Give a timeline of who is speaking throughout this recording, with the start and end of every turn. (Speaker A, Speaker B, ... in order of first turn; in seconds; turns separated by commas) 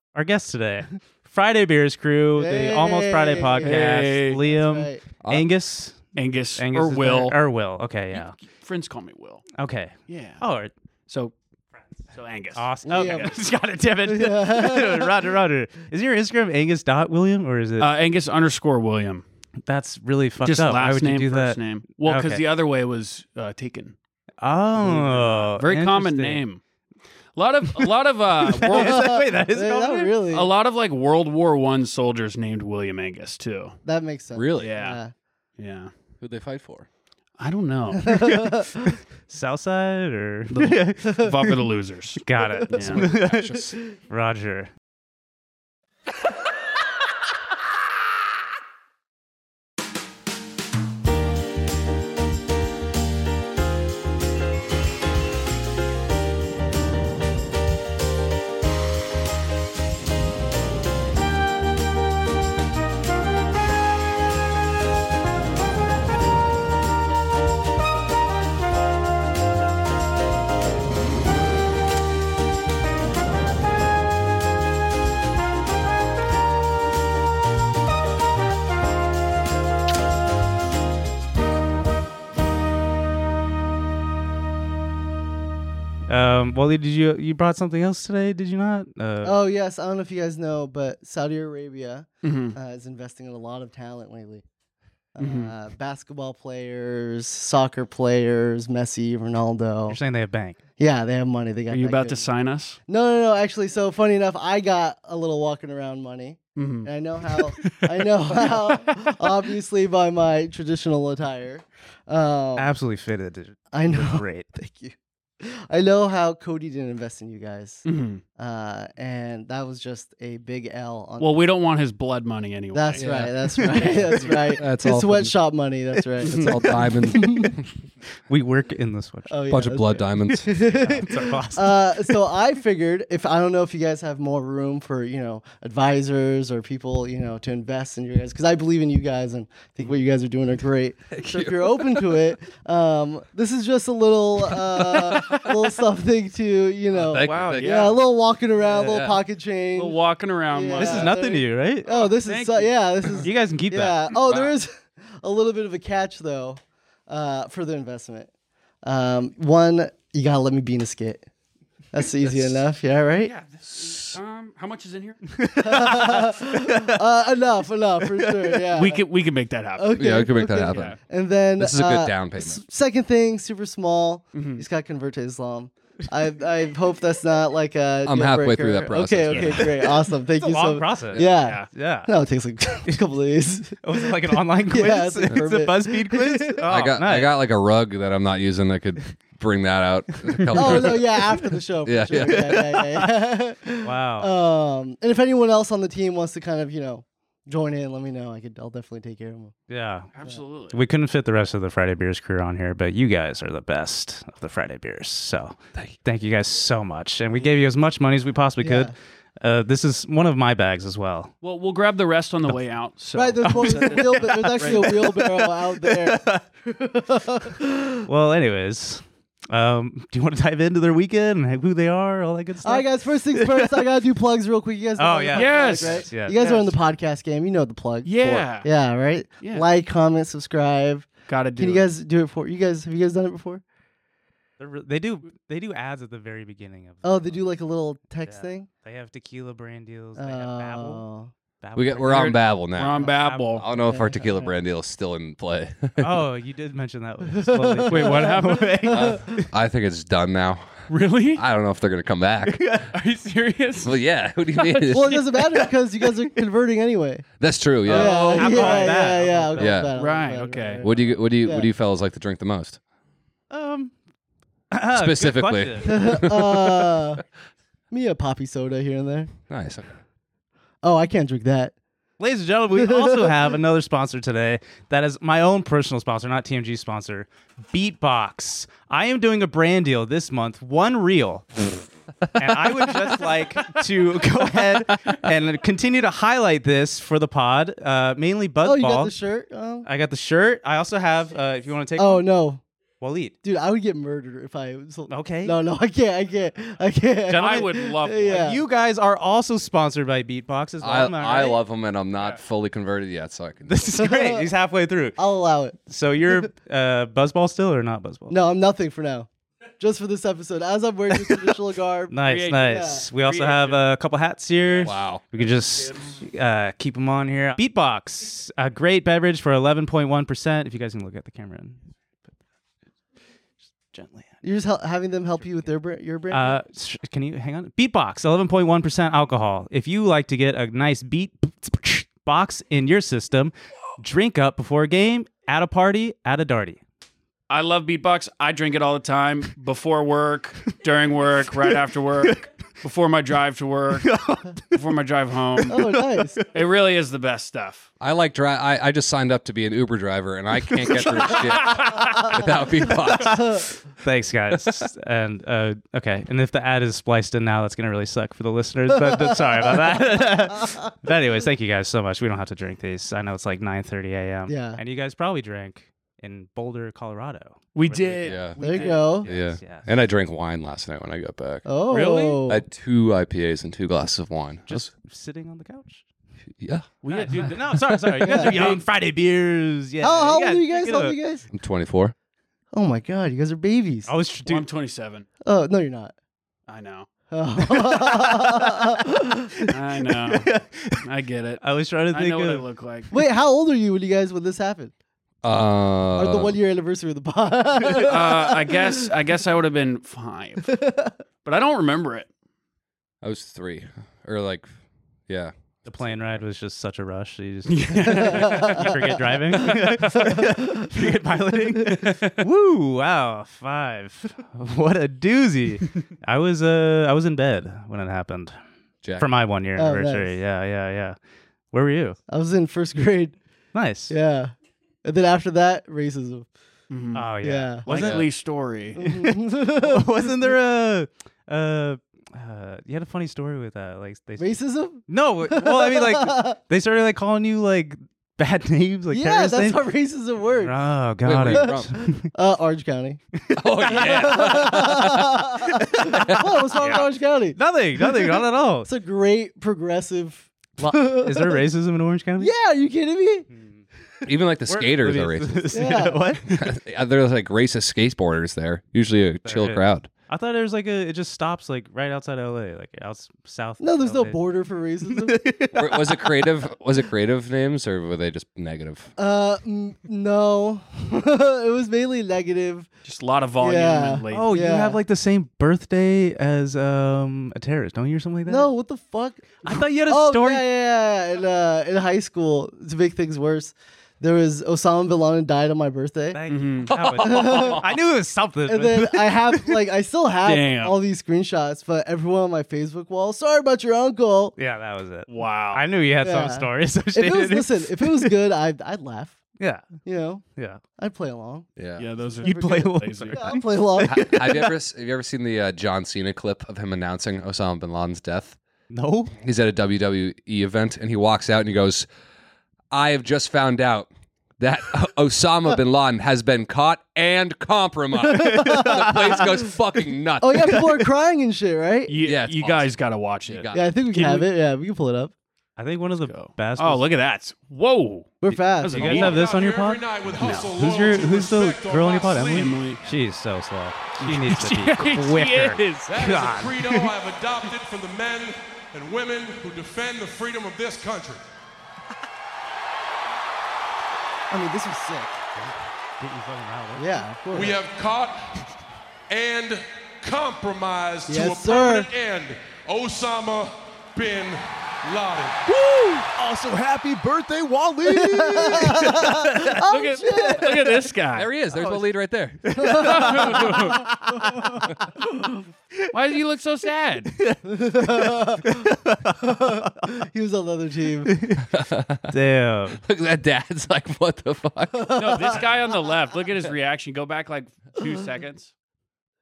Speaker A: 0.1-8.3, Speaker B: 2.4-5.0, Speaker C: 3.6-4.4, Speaker D: 5.2-5.5, Speaker C: 6.2-7.4, Speaker C: 8.1-9.4, Speaker A: 9.6-10.7, Speaker C: 10.1-10.4, Speaker C: 11.1-11.3, Speaker C: 12.1-13.3, Speaker A: 12.6-17.9, Speaker B: 12.9-13.3, Speaker B: 14.1-15.2, Speaker C: 17.8-19.2, Speaker A: 19.7-22.4, Speaker C: 20.4-23.9, Speaker A: 24.4-26.4, Speaker C: 24.8-26.6, Speaker C: 27.4-29.1, Speaker A: 28.4-30.2, Speaker B: 28.7-30.5, Speaker C: 30.3-33.8, Speaker B: 33.8-35.1, Speaker D: 34.3-34.8, Speaker C: 34.6-35.0, Speaker C: 35.6-35.9, Speaker D: 36.2-36.9, Speaker C: 37.4-38.0, Speaker B: 38.0-38.8, Speaker A: 38.1-38.6, Speaker A: 39.3-41.2, Speaker C: 40.5-43.0, Speaker A: 42.2-43.5, Speaker B: 42.7-43.8, Speaker D: 43.0-43.8, Speaker A: 44.1-44.7, Speaker A: 86.1-89.4, Speaker B: 89.2-94.4, Speaker C: 92.2-92.6, Speaker B: 95.2-100.0, Speaker C: 95.2-95.5, Speaker A: 99.9-100.6, Speaker B: 100.8-102.3, Speaker C: 101.7-102.8, Speaker B: 102.9-112.7, Speaker C: 106.6-106.9, Speaker C: 107.4-107.7, Speaker C: 108.4-109.1, Speaker A: 112.6-114.5, Speaker B: 113.7-117.8, Speaker C: 117.8-118.2, Speaker B: 118.4-121.3, Speaker C: 121.2-123.2, Speaker B: 122.7-127.6, Speaker D: 123.0-125.4, Speaker A: 123.6-123.9, Speaker C: 123.8-124.5, Speaker D: 126.2-127.7, Speaker A: 128.3-129.4, Speaker B: 129.3-158.3, Speaker D: 129.5-130.9, Speaker A: 130.3-132.0, Speaker D: 141.1-142.3, Speaker D: 144.7-145.5, Speaker D: 146.9-148.0, Speaker C: 147.2-148.0, Speaker D: 148.6-149.2, Speaker C: 149.7-151.2, Speaker A: 150.8-151.9, Speaker C: 151.9-152.7, Speaker A: 153.2-154.0, Speaker D: 154.3-154.5, Speaker B: 158.8-161.3, Speaker B: 161.9-163.3, Speaker C: 162.3-162.6, Speaker C: 163.2-165.2, Speaker D: 163.6-164.2, Speaker A: 165.3-166.9, Speaker B: 165.6-169.0, Speaker A: 168.0-168.7, Speaker C: 168.7-169.9, Speaker B: 169.8-186.6, Speaker D: 169.9-171.0, Speaker C: 170.7-171.0, Speaker D: 171.6-172.6, Speaker C: 174.3-174.7, Speaker D: 178.1-179.8, Speaker A: 180.4-182.1, Speaker C: 181.2-181.7, Speaker A: 183.8-187.4, Speaker D: 186.7-191.2, Speaker B: 190.6-199.5, Speaker D: 191.9-192.6, Speaker A: 192.3-193.1, Speaker A: 193.8-194.3, Speaker A: 199.7-200.1, Speaker C: 200.2-200.8, Speaker A: 200.7-211.3, Speaker B: 208.6-208.9, Speaker C: 211.4-215.1, Speaker B: 213.2-218.1, Speaker A: 213.4-216.4, Speaker A: 218.1-223.7, Speaker B: 222.6-233.6, Speaker A: 225.0-226.4, Speaker C: 225.3-226.7, Speaker C: 228.0-228.7, Speaker C: 229.4-229.7, Speaker C: 231.3-231.9, Speaker A: 234.6-237.4, Speaker B: 237.0-238.7, Speaker A: 238.2-241.0, Speaker B: 240.2-241.3, Speaker A: 241.6-242.4, Speaker D: 241.8-246.2, Speaker C: 242.1-243.7, Speaker A: 243.1-243.7, Speaker B: 243.8-244.5, Speaker A: 246.0-249.5, Speaker B: 247.3-249.2, Speaker C: 247.9-248.8, Speaker D: 248.9-252.7, Speaker C: 250.9-251.4, Speaker A: 252.5-252.9, Speaker C: 252.9-254.0, Speaker D: 253.8-255.2, Speaker C: 254.6-255.2, Speaker B: 254.9-257.3, Speaker D: 257.4-258.3, Speaker B: 257.9-261.7, Speaker C: 257.9-259.0, Speaker A: 257.9-259.9, Speaker D: 259.6-259.9, Speaker C: 260.0-260.9, Speaker D: 260.8-262.8, Speaker A: 263.5-263.9, Speaker A: 264.7-265.9, Speaker D: 264.9-267.0, Speaker B: 265.8-267.2, Speaker B: 267.9-269.3, Speaker D: 269.5-269.9, Speaker B: 270.8-271.8, Speaker A: 272.2-281.6, Speaker B: 272.8-273.4, Speaker A: 282.4-289.1, Speaker B: 288.6-289.9, Speaker A: 289.8-292.3, Speaker B: 292.0-292.6, Speaker A: 293.0-293.4, Speaker B: 293.4-298.6, Speaker A: 295.1-295.6, Speaker A: 297.3-297.7, Speaker C: 297.3-298.4, Speaker A: 298.3-301.6, Speaker D: 300.8-303.9, Speaker A: 303.7-305.2, Speaker B: 303.9-304.5, Speaker B: 305.2-305.8, Speaker A: 305.9-308.4, Speaker B: 308.3-309.3, Speaker B: 309.8-313.1, Speaker A: 312.1-321.8, Speaker C: 312.3-313.8, Speaker D: 314.8-315.2, Speaker A: 323.9-324.4, Speaker B: 324.4-326.6, Speaker A: 326.3-336.8, Speaker C: 337.5-344.1, Speaker A: 341.6-342.4, Speaker A: 344.0-344.8, Speaker C: 344.7-345.8, Speaker A: 345.7-346.5, Speaker B: 345.7-346.4, Speaker C: 346.5-347.9, Speaker D: 348.0-353.5, Speaker A: 350.7-352.1, Speaker A: 353.1-353.4, Speaker B: 353.3-353.7, Speaker A: 354.0-369.9, Speaker B: 358.9-360.8, Speaker B: 364.5-364.8, Speaker C: 367.8-369.1, Speaker D: 368.2-368.6, Speaker B: 368.6-369.3, Speaker D: 369.2-371.6, Speaker B: 371.7-372.6, Speaker C: 371.9-372.4, Speaker D: 372.5-374.9, Speaker A: 374.7-376.0, Speaker D: 376.6-376.9, Speaker C: 377.0-377.8, Speaker A: 377.1-381.2, Speaker D: 377.5-378.2, Speaker B: 378.3-378.6, Speaker C: 378.4-378.8, Speaker B: 380.0-381.5, Speaker D: 381.5-382.1, Speaker B: 382.7-384.1, Speaker A: 384.1-384.7, Speaker C: 384.5-385.3, Speaker B: 385.5-386.1, Speaker C: 386.7-387.1, Speaker B: 387.3-389.5, Speaker A: 387.8-388.7, Speaker A: 389.6-391.0, Speaker C: 389.7-390.5, Speaker C: 391.0-393.1, Speaker A: 391.6-392.6, Speaker B: 393.1-394.9, Speaker D: 395.4-396.6, Speaker B: 396.2-398.8, Speaker A: 397.8-398.1, Speaker C: 398.1-400.7, Speaker B: 400.7-401.1, Speaker C: 401.4-402.3, Speaker D: 403.2-404.7, Speaker D: 405.3-406.1, Speaker A: 405.9-418.6, Speaker C: 407.7-408.9, Speaker B: 408.1-408.9, Speaker C: 409.6-410.2, Speaker B: 409.9-411.2, Speaker B: 411.8-412.1, Speaker A: 419.2-421.2, Speaker B: 419.8-420.3, Speaker A: 421.7-422.2, Speaker B: 422.3-423.4, Speaker A: 423.7-424.1, Speaker B: 424.1-426.5, Speaker C: 426.9-427.3, Speaker A: 427.1-428.2, Speaker B: 427.4-427.9, Speaker C: 427.9-429.1, Speaker D: 427.9-428.3, Speaker B: 429.0-430.6, Speaker A: 429.8-439.9, Speaker B: 434.4-436.6, Speaker B: 439.1-440.8, Speaker A: 440.6-442.2, Speaker D: 441.2-442.0, Speaker B: 441.5-443.2, Speaker D: 443.5-445.5, Speaker B: 443.8-451.6, Speaker A: 444.0-444.4, Speaker A: 445.7-446.3, Speaker D: 446.2-447.0, Speaker A: 447.6-448.9, Speaker A: 450.8-452.5, Speaker B: 452.4-453.5, Speaker D: 454.2-455.8, Speaker A: 454.7-456.4, Speaker B: 455.7-456.3, Speaker D: 456.5-460.1, Speaker A: 459.4-464.4, Speaker B: 463.8-465.5, Speaker A: 465.1-465.9, Speaker D: 465.8-469.1, Speaker B: 469.2-472.9, Speaker C: 473.1-474.4, Speaker B: 473.6-475.0, Speaker A: 474.3-478.7, Speaker B: 478.5-486.4, Speaker A: 479.6-480.6, Speaker A: 486.3-489.8, Speaker C: 486.5-486.9, Speaker D: 486.9-487.8, Speaker B: 487.2-487.8, Speaker B: 488.7-494.6, Speaker C: 490.4-491.0, Speaker A: 494.6-498.3, Speaker C: 495.3-495.8, Speaker B: 496.2-499.4, Speaker A: 499.6-500.0, Speaker B: 500.0-500.4, Speaker B: 501.0-501.7, Speaker D: 501.8-502.1, Speaker C: 502.0-503.5, Speaker A: 502.4-504.7, Speaker B: 503.3-504.4, Speaker D: 504.0-508.6, Speaker A: 508.9-509.3, Speaker D: 509.4-512.1, Speaker D: 512.9-520.8, Speaker A: 518.3-519.5, Speaker B: 518.5-519.4, Speaker B: 520.4-522.1, Speaker A: 520.7-521.0, Speaker C: 522.1-524.5, Speaker D: 522.2-523.9, Speaker B: 523.7-525.3, Speaker A: 525.8-527.1, Speaker C: 526.2-529.4, Speaker B: 528.4-529.4, Speaker A: 528.5-537.1, Speaker E: 529.0-532.9, Speaker C: 530.4-530.7, Speaker C: 532.5-533.0, Speaker C: 534.2-536.1, Speaker E: 536.1-541.4, Speaker B: 544.5-545.4, Speaker A: 545.6-547.2, Speaker B: 547.0-547.8, Speaker E: 547.5-548.7, Speaker E: 549.3-555.7, Speaker B: 551.3-552.1, Speaker B: 555.9-556.2, Speaker A: 556.4-559.8, Speaker B: 558.1-560.8, Speaker C: 559.9-561.5, Speaker A: 560.3-560.6, Speaker D: 561.3-562.8, Speaker A: 562.6-565.0, Speaker B: 562.7-565.6, Speaker C: 563.0-564.0, Speaker C: 566.1-567.3, Speaker A: 567.3-570.0, Speaker B: 567.6-568.9, Speaker B: 569.4-571.3, Speaker A: 571.3-571.7, Speaker D: 571.7-572.3, Speaker A: 572.3-573.0, Speaker D: 573.0-575.6, Speaker B: 575.0-575.6, Speaker C: 575.2-578.7